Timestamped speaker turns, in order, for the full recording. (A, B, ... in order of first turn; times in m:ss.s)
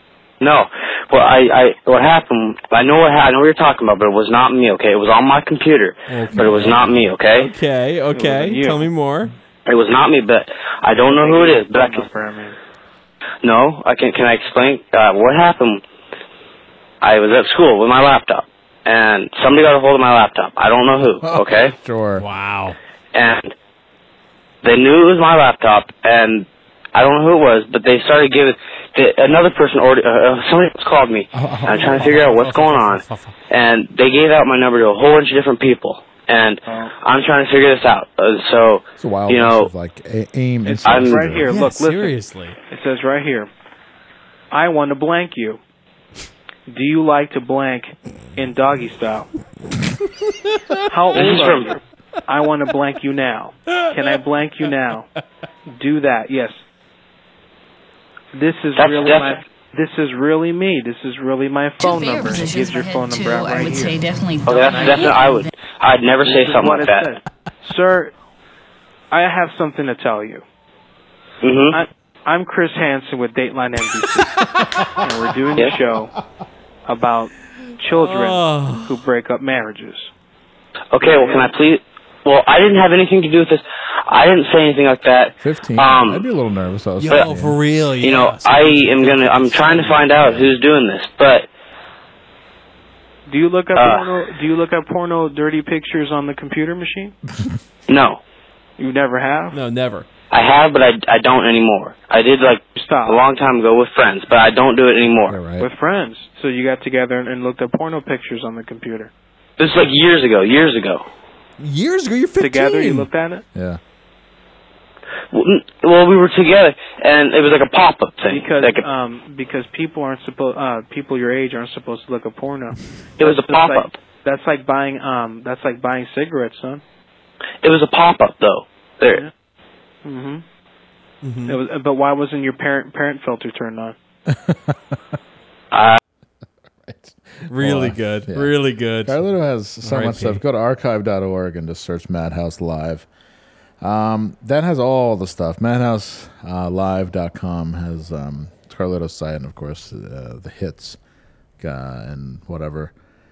0:00.4-0:07.5 A
0:06.1-0:09.3 B
0:08.2-0:08.9 C
0:09.7-0:12.1 A
0:10.9-0:12.6 C
0:13.4-0:15.8 A
0:17.0-0:21.8 A
0:21.2-0:22.3 D
0:22.2-0:22.8 B
0:23.1-0:23.5 A
0:24.6-0:39.7 A
0:31.3-0:32.2 D
0:31.7-0:33.4 B
0:36.7-0:36.9 C
0:39.0-0:41.5 D
0:40.7-0:42.2 C
0:40.8-0:41.2 A
0:41.4-0:42.6 B
0:42.7-0:43.5 C
0:44.5-0:45.6 C
0:46.7-0:49.3 C
0:50.4-0:50.8 B
0:50.9-0:55.1 C
0:51.1-0:51.7 A
0:55.7-0:56.6 C
0:58.4-1:04.0 C
0:58.8-0:59.3 A
1:01.8-1:05.5 E
1:04.5-1:07.1 A
1:04.5-1:05.4 C
1:06.2-1:08.1 C
1:09.1-1:10.4 C
1:11.4-1:11.8 A
1:11.7-1:14.3 C
1:15.0-1:16.1 C
1:16.9-1:20.1 C
1:17.9-1:19.0 B
1:20.9-1:26.2 A
1:21.0-1:21.5 C
1:25.4-1:27.6 D
1:27.0-1:30.5 B
1:28.0-1:31.5 A
1:33.3-1:37.1 C
1:33.8-1:34.1 A
1:37.9-1:38.2 A
1:38.8-1:39.6 C
1:39.5-1:40.1 B
1:40.3-1:45.4 A
1:42.8-1:43.2 C
1:45.2-1:45.7 D
1:45.5-1:49.1 C
1:49.6-1:51.0 A
1:51.6-1:53.1 B
1:52.4-1:53.4 C
1:53.5-1:53.8 D
1:55.3-1:58.8 A
1:58.3-2:06.8 C
2:03.2-2:04.0 A
2:07.6-2:09.2 A
2:10.0-2:10.4 C
2:11.2-2:11.6 B
2:11.5-2:14.0 C
2:14.3-2:14.8 D
2:15.7-2:16.0 A
2:16.8-2:23.1 D
2:17.5-2:19.2 B
2:19.8-2:20.4 B
2:23.8-2:31.0 D
2:31.6-2:32.9 D